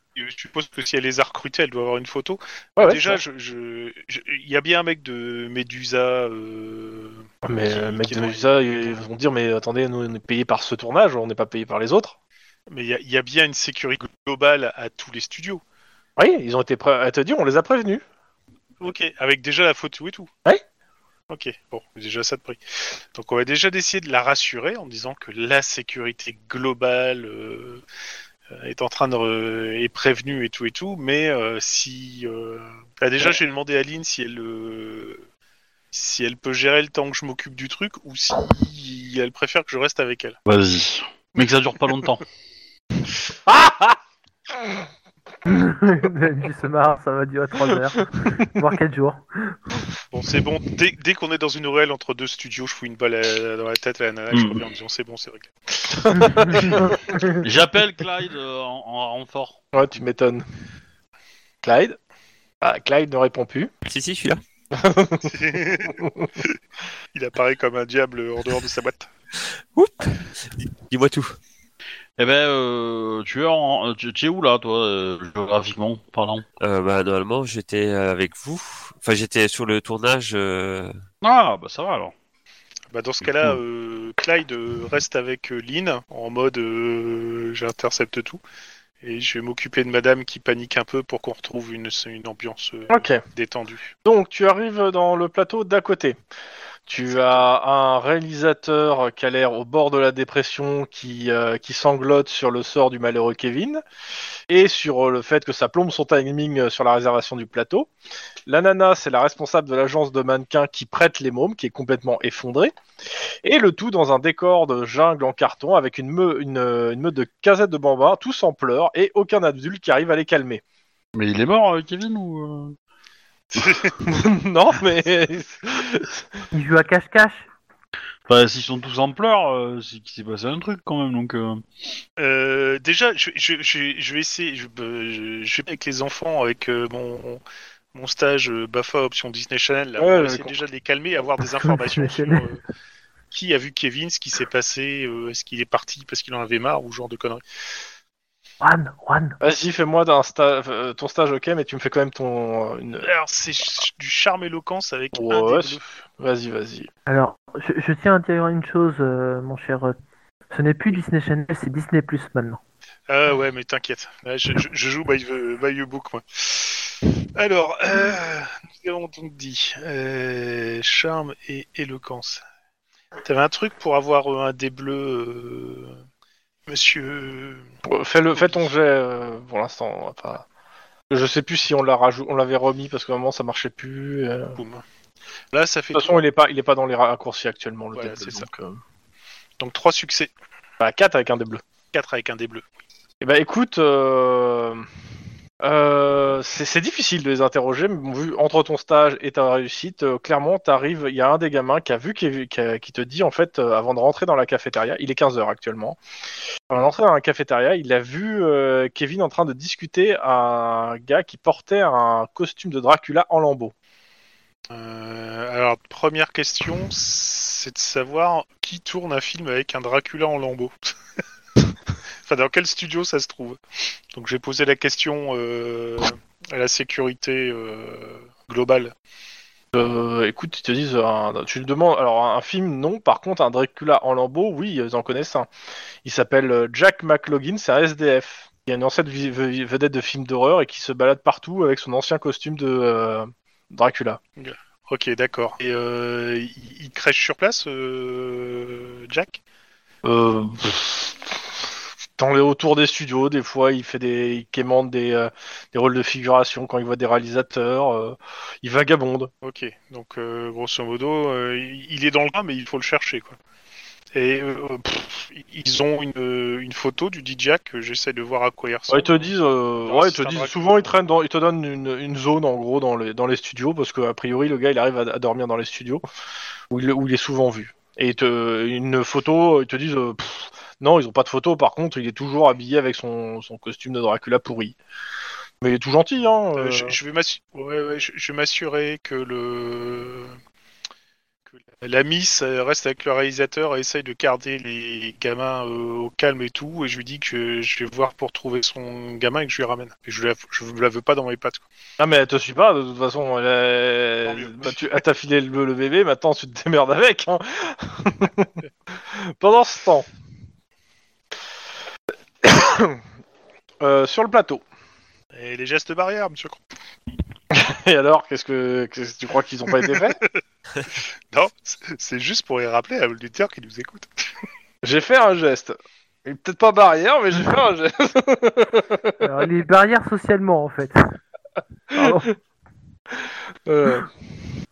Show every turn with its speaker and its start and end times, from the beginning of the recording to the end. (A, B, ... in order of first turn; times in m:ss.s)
0:00.1-0:08.9 A
0:02.8-0:03.2 B
0:07.4-0:12.1 B
0:12.7-0:15.6 A
0:16.2-0:18.0 B
0:18.8-0:20.3 A
0:21.3-0:27.8 A
0:28.5-0:35.2 A
0:35.9-0:40.4 A
0:40.4-0:42.2 C
0:43.5-0:44.0 B
0:45.4-0:49.6 D
0:50.1-0:55.5 A
0:54.3-0:54.6 C
0:55.9-0:57.4 B
0:57.4-0:59.6 C
0:59.7-1:00.4 B
1:01.6-1:02.0 B
1:02.6-1:03.7 B
1:03.8-1:04.4 E
1:04.7-1:05.3 B
1:05.2-1:06.6 A
1:07.1-1:09.1 A
1:09.7-1:11.3 E
1:12.2-1:16.4 C
1:16.6-1:21.0 E
1:21.2-1:22.1 C
1:22.9-1:28.4 A
1:23.2-1:23.6 C
1:29.0-1:33.9 A
1:32.9-1:33.2 B
1:34.0-1:36.2 B
1:36.9-1:43.8 B
1:37.0-1:37.5 A
1:44.5-1:47.9 B
1:48.4-1:52.7 B
1:53.4-2:00.6 B
2:01.1-2:02.8 C
2:03.6-2:03.9 A
2:04.0-2:06.2 B
2:06.5-2:07.4 D
2:08.3-2:11.6 C
2:12.2-2:17.4 A
2:17.9-2:22.6 A
2:20.0-2:20.5 B
2:21.4-2:22.5 D
2:23.3-2:27.4 A
2:28.6-2:29.4 D
2:29.4-2:33.1 B
2:33.0-2:35.8 A
2:35.1-2:36.9 B
2:37.1-2:39.9 D
2:40.5-2:42.6 D
2:43.1-2:52.4 A
2:53.2-2:56.0 A
2:56.7-2:57.7 A
2:57.9-3:00.4 B
2:58.3-2:58.7 A
3:01.1-3:04.6 B
3:04.6-3:04.8 A
3:05.5-3:06.2 A
3:05.9-3:08.8 B
3:07.9-3:08.5 A
3:09.6-3:10.3 A
3:10.8-3:11.6 B
3:11.9-3:12.6 A
3:13.2-3:14.8 B
3:15.6-3:26.0 B
3:26.7-3:33.7 B
3:34.7-3:40.9 A
3:42.2-3:43.6 A
3:44.1-3:48.9 A
3:49.7-3:55.5 B
3:56.0-4:04.2 B
4:04.4-4:09.4 A
4:10.0-4:11.1 B
4:12.2-4:19.3 B
4:19.4-4:23.4 A
4:24.1-4:29.3 A
4:28.9-4:36.0 B
4:29.8-4:30.9 A
4:36.7-4:44.8 B
4:45.6-4:46.9 B
4:46.6-4:50.4 A
4:51.5-5:01.6 A
5:02.0-5:08.5 B
5:04.2-5:04.9 A
5:09.4-5:10.1 B
5:12.4-5:13.0 B
5:13.8-5:14.6 B
5:15.3-5:16.6 A
5:17.5-5:20.2 B
5:19.9-5:20.3 A
5:20.9-5:24.1 A
5:24.8-5:29.3 B
5:29.2-5:31.0 D
5:31.9-5:32.3 B
5:31.9-5:32.3 D
5:33.7-5:34.1 B